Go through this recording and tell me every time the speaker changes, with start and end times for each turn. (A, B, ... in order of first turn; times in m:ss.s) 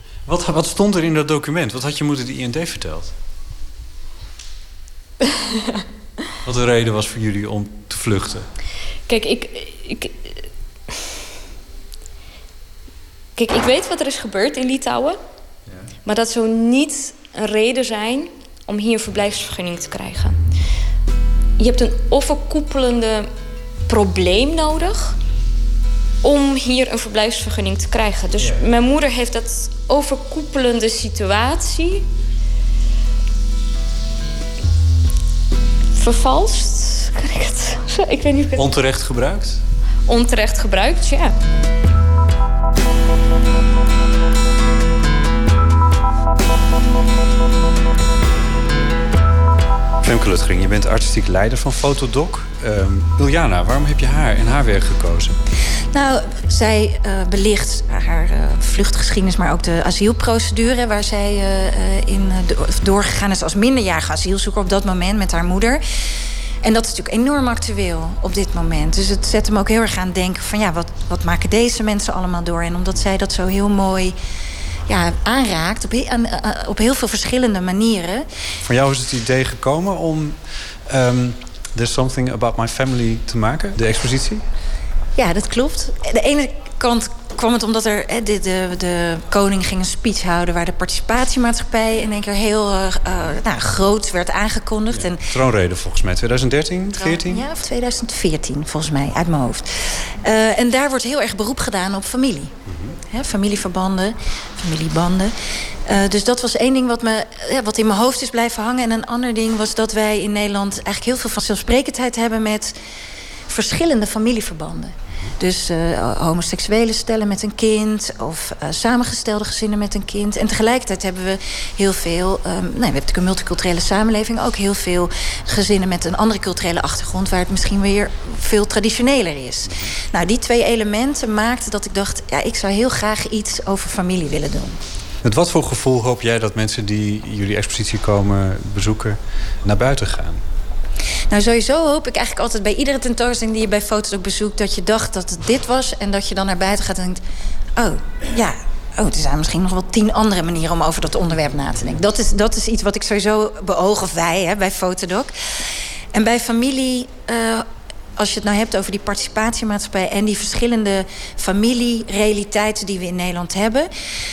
0:00.2-0:03.1 A
0:06.4-0:08.5 A
0:09.1-0:10.4 B
0:13.4-0:15.2 B
0:15.7-0:15.9 A
0:16.0-0:20.4 B
0:21.6-0:23.3 B
0:23.9-0:25.2 B
0:26.2-0:32.0 B
0:35.9-0:38.7 B
0:38.6-0:39.6 A
0:40.1-0:41.3 B
0:50.0-0:55.4 A
0:55.9-1:05.8 C
1:06.6-1:14.2 C
1:14.9-1:18.3 C
1:18.6-1:24.4 A
1:25.2-1:35.3 C
1:34.9-1:37.4 A
1:37.0-1:42.6 C
1:42.6-1:43.0 A
1:43.1-1:52.8 C
1:53.5-2:14.8 C
2:09.6-2:09.9 A
2:15.2-2:20.4 A
2:21.3-2:27.2 C
2:27.8-2:43.9 C